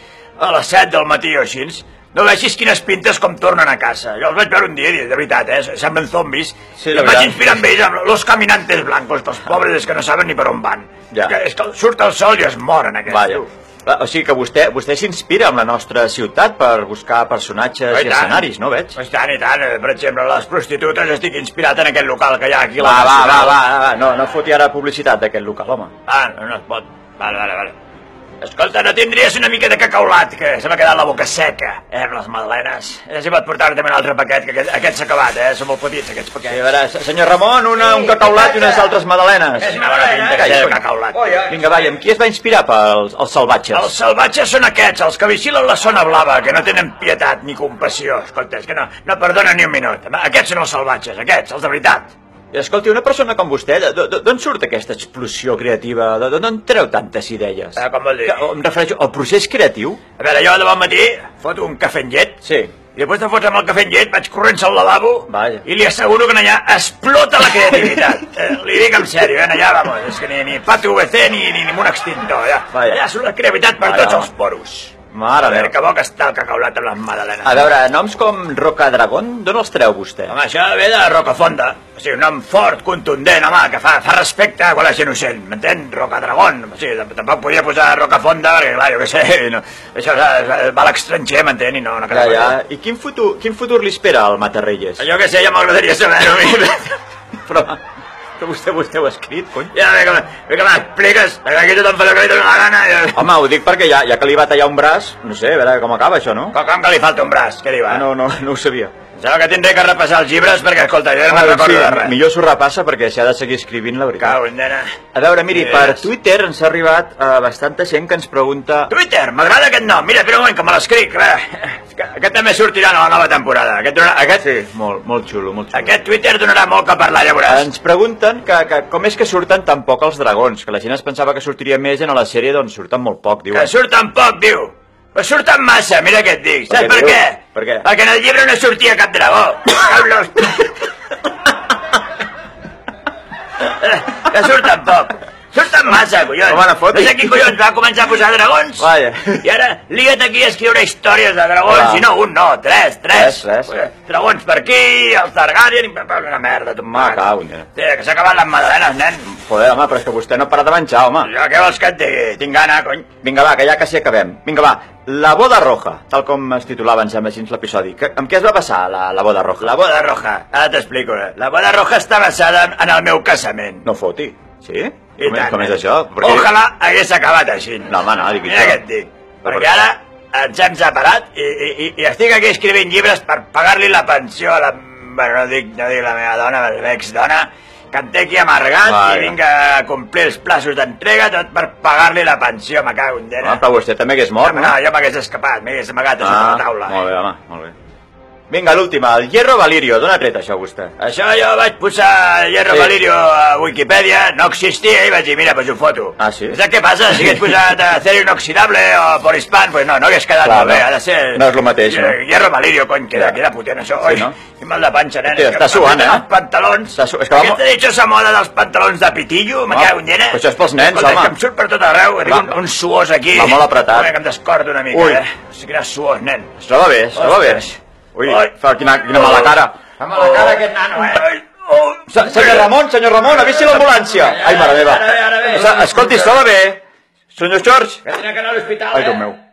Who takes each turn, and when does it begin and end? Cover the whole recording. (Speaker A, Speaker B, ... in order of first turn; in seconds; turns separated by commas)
Speaker A: 0.4-13.5, Speaker B: 6.8-7.6, Speaker B: 13.1-19.0, Speaker A: 17.9-23.6, Speaker B: 22.8-25.9, Speaker A: 26.1-27.8, Speaker A: 28.4-36.6, Speaker B: 36.5-43.9, Speaker A: 37.8-38.9, Speaker A: 39.5-41.6, Speaker A: 43.7-52.1, Speaker B: 52.5-60.0, Speaker A: 57.8-58.5, Speaker A: 60.2-77.6, Speaker B: 62.4-62.7, Speaker B: 65.3-65.7, Speaker B: 72.7-73.0, Speaker B: 73.8-74.3, Speaker B: 75.1-75.7, Speaker B: 77.5-80.3, Speaker A: 80.3-92.6, Speaker B: 92.1-95.1, Speaker A: 95.0-97.0, Speaker B: 97.5-97.8, Speaker B: 98.4-99.8, Speaker A: 99.7-103.3, Speaker B: 103.1-106.6, Speaker A: 106.5-108.0, Speaker B: 107.9-108.9, Speaker A: 109.2-112.2, Speaker B: 111.3-114.4, Speaker A: 114.2-115.0, Speaker B: 115.1-118.9, Speaker A: 115.5-116.1, Speaker A: 118.9-124.5, Speaker B: 124.4-126.1, Speaker A: 125.7-127.7, Speaker B: 127.5-133.7, Speaker A: 133.5-140.7, Speaker B: 136.7-137.9, Speaker A: 143.6-148.9, Speaker B: 146.4-147.5, Speaker B: 148.8-149.5, Speaker A: 149.4-159.3, Speaker B: 151.7-152.1, Speaker B: 153.1-153.7, Speaker B: 156.9-157.7, Speaker B: 159.2-161.3, Speaker A: 161.2-163.1, Speaker B: 163.2-169.8, Speaker A: 169.6-173.9, Speaker B: 173.8-176.5, Speaker A: 175.2-193.6, Speaker B: 177.9-178.8, Speaker B: 179.4-179.8, Speaker B: 188.8-189.4, Speaker B: 193.4-194.8, Speaker A: 194.4-197.0, Speaker B: 196.2-197.8, Speaker B: 198.5-201.0, Speaker A: 201.0-226.6, Speaker B: 206.2-206.6, Speaker B: 210.4-212.2, Speaker B: 214.0-214.4, Speaker B: 215.3-216.2, Speaker B: 216.9-217.6, Speaker B: 219.7-221.3, Speaker B: 222.3-222.6, Speaker B: 223.3-224.1, Speaker B: 224.9-225.2, Speaker B: 226.6-229.8, Speaker A: 227.1-228.5, Speaker A: 229.1-232.7, Speaker B: 232.1-236.8, Speaker A: 233.3-236.4, Speaker B: 237.3-238.0, Speaker A: 238.1-239.3, Speaker B: 238.9-239.4